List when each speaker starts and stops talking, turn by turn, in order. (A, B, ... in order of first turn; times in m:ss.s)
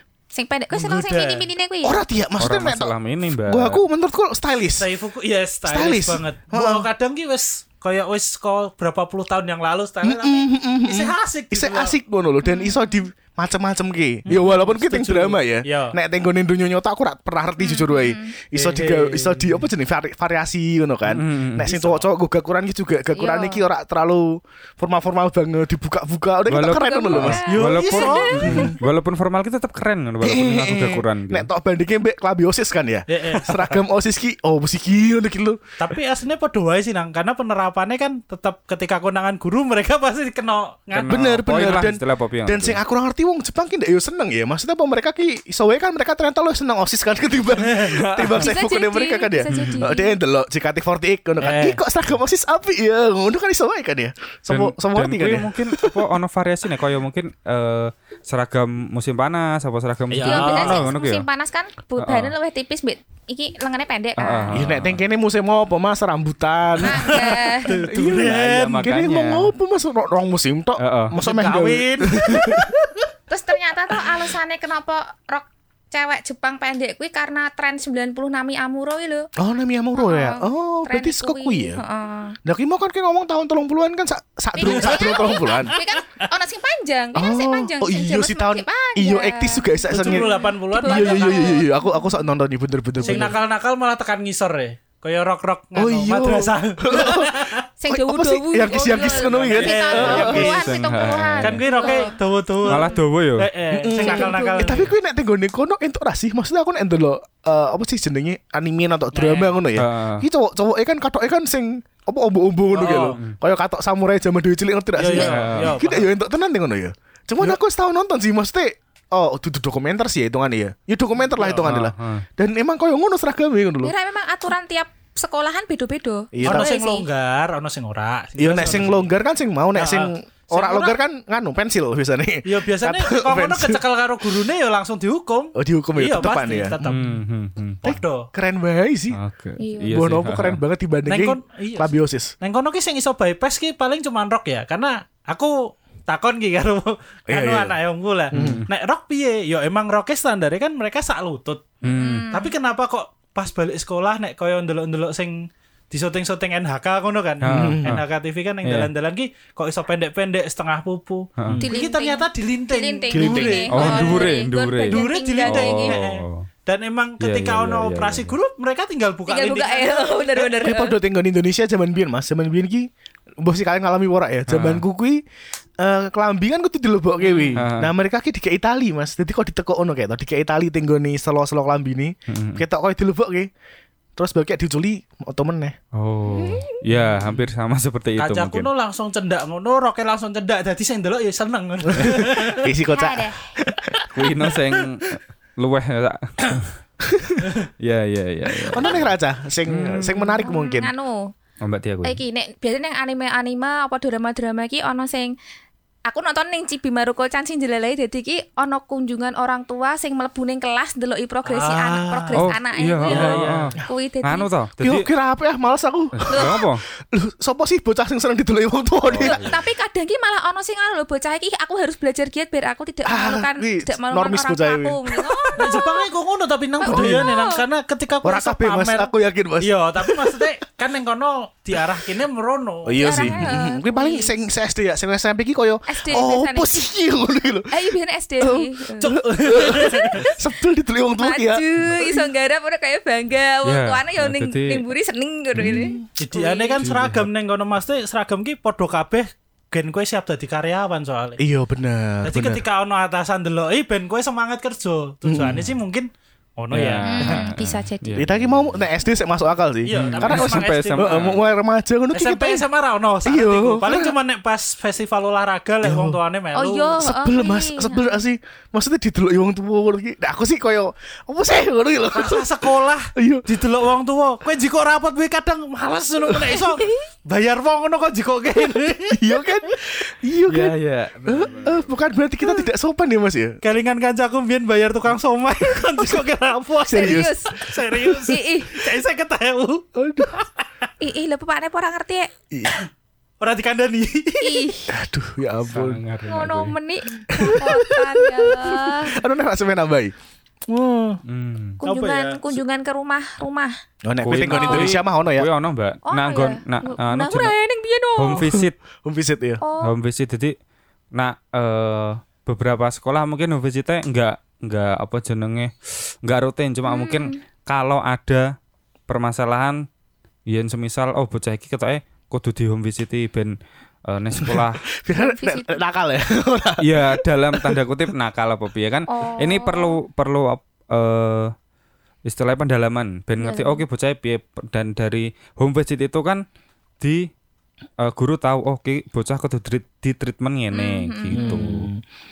0:00.3-0:02.0 A
0:00.7-0:01.5 B
0:01.8-0:04.9 C
0:02.4-0:03.8 D
0:04.8-0:12.0 B
0:05.6-0:06.9 C
0:10.0-0:27.4 C
0:12.4-0:13.0 A
0:14.3-0:16.0 B
0:17.6-0:18.3 A
0:18.5-0:19.6 B
0:21.0-0:22.0 D
0:23.1-0:23.6 A
0:26.5-0:31.5 D
0:26.7-0:28.7 A
0:27.5-0:28.7 B
0:28.4-0:28.8 C
0:30.2-0:35.6 C
0:33.1-0:33.8 B
0:35.8-0:41.2 B
0:40.9-0:42.8 D
0:41.1-0:56.0 C
0:47.6-0:48.0 B
0:47.8-0:48.4 D
0:48.4-0:50.2 A
0:49.5-0:49.8 D
0:51.4-0:51.8 B
0:54.5-1:01.2 D
1:00.1-1:00.9 B
1:00.2-1:04.6 A
1:02.0-1:02.3 D
1:04.2-1:05.0 D
1:04.5-1:12.7 C
1:06.8-1:08.8 B
1:06.8-1:07.8 A
1:08.0-1:09.5 D
1:10.8-1:11.1 D
1:11.2-1:13.0 B
1:13.3-1:19.3 A
1:19.4-1:21.8 C
1:20.0-1:22.4 A
1:22.4-1:25.8 C
1:24.5-1:32.2 A
1:24.6-1:26.3 B
1:27.1-1:33.4 C
1:29.9-1:31.7 B
1:33.0-1:33.3 A
1:33.0-1:37.6 B
1:35.7-1:40.5 C
1:37.8-1:43.0 A
1:39.0-1:40.8 B
1:39.9-1:41.9 D
1:41.4-1:44.9 B
1:42.6-1:43.5 D
1:43.7-2:03.9 C
1:43.9-1:44.7 A
1:49.1-1:49.6 B
1:49.7-1:50.2 D
1:52.7-1:53.2 B
1:55.0-1:56.1 B
1:55.2-1:55.7 D
2:01.4-2:01.7 B
2:01.6-2:02.2 D
2:03.8-2:07.0 A
2:06.3-2:06.7 C
2:06.4-2:09.1 B
2:08.4-2:13.8 C
2:09.7-2:11.0 B
2:12.4-2:17.2 B
2:15.6-2:17.0 C
2:16.8-2:17.8 D
2:17.8-2:18.3 B
2:17.8-2:19.2 C
2:19.1-2:20.6 D
2:19.6-2:20.0 A
2:19.9-2:22.3 C
2:21.0-2:44.3 B
2:27.3-2:27.8 C
2:28.3-2:28.6 C
2:28.3-2:28.7 D
2:31.8-2:32.3 D
2:31.8-2:32.5 A
2:37.4-2:38.0 D
2:37.5-2:38.0 C
2:38.6-2:38.9 D
2:41.4-2:41.6 D
2:41.6-2:46.0 A
2:43.1-2:44.0 C
2:43.7-2:46.5 D
2:44.9-2:50.7 B
2:47.2-2:48.4 D
2:49.3-2:50.9 A
2:50.6-2:52.9 C
2:53.4-2:55.2 C
2:54.5-2:54.8 D
2:55.8-3:03.5 C
2:57.2-2:57.5 A
2:57.5-2:57.9 D
3:02.3-3:02.6 D
3:04.2-3:05.8 C
3:05.9-3:08.7 D
3:06.3-3:06.8 A
3:08.2-3:12.7 B
3:11.9-3:14.1 C
3:12.9-3:13.5 A
3:14.1-3:16.7 D
3:17.0-3:17.4 C
3:17.8-3:19.1 D
3:18.5-3:20.9 C
3:19.7-3:20.4 D
3:20.4-3:21.3 A
3:21.6-3:22.2 D
3:22.0-3:25.3 A
3:26.0-3:34.5 A
3:31.4-3:32.4 B
3:32.3-3:35.1 D
3:33.0-3:33.7 B
3:34.8-3:39.4 C
3:36.1-3:36.8 D
3:36.3-3:36.6 A
3:39.0-3:39.6 D
3:39.2-3:46.0 A
3:43.0-3:45.6 C
3:45.6-3:53.4 B
3:46.8-3:47.6 A
3:46.8-3:47.3 C
3:48.2-3:50.5 C
3:52.8-3:57.8 C
3:53.0-3:54.3 A
3:55.9-3:56.8 A
3:57.7-4:00.2 A
3:58.4-4:02.3 C
3:59.0-4:00.2 B
4:01.2-4:06.8 A
4:03.6-4:04.9 D
4:05.6-4:06.1 C
4:06.2-4:11.4 B
4:06.8-4:07.3 D
4:11.4-4:12.6 C
4:12.2-4:17.4 B
4:15.2-4:15.7 C
4:16.7-4:18.8 D
4:17.0-4:18.1 A
4:18.2-4:22.6 C
4:19.8-4:21.4 B
4:19.9-4:21.4 D
4:22.1-4:27.0 B
4:23.2-4:24.1 C
4:25.8-4:26.2 C
4:26.5-4:28.2 A
4:27.0-4:33.5 C
4:32.1-4:39.2 B
4:36.6-4:37.0 A
4:39.1-4:43.6 C
4:40.5-4:41.9 D
4:43.6-4:50.5 B
4:46.9-4:47.3 C
4:46.9-4:48.8 A
4:50.0-4:50.4 C
4:51.0-4:52.3 A
4:52.5-4:52.8 C
4:53.4-4:54.7 B
4:54.4-4:55.0 A
4:54.9-4:56.0 C
4:55.7-4:56.8 D
4:56.2-4:59.2 A
4:57.3-5:00.1 C
5:00.7-5:01.2 C
5:01.2-5:01.8 D
5:01.8-5:03.7 A
5:01.8-5:02.4 B
5:04.0-5:05.5 C
5:04.2-5:07.5 D
5:04.5-5:04.9 A
5:06.0-5:08.4 A
5:08.2-5:08.7 D
5:08.4-5:09.6 C
5:09.6-5:09.9 A
5:09.8-5:10.6 D
5:11.1-5:15.7 D
5:16.2-5:18.5 D
5:16.8-5:17.4 A
5:19.1-5:19.8 D
5:20.5-5:23.5 D
5:24.1-5:24.8 D
5:24.4-5:27.8 C
5:25.1-5:25.8 A
5:26.8-5:31.5 D
5:29.1-5:30.0 A
5:32.2-5:36.4 D
5:33.4-5:33.8 A
5:37.0-5:37.3 D
5:38.0-5:41.9 D
5:40.7-5:41.7 A
5:41.3-5:42.0 C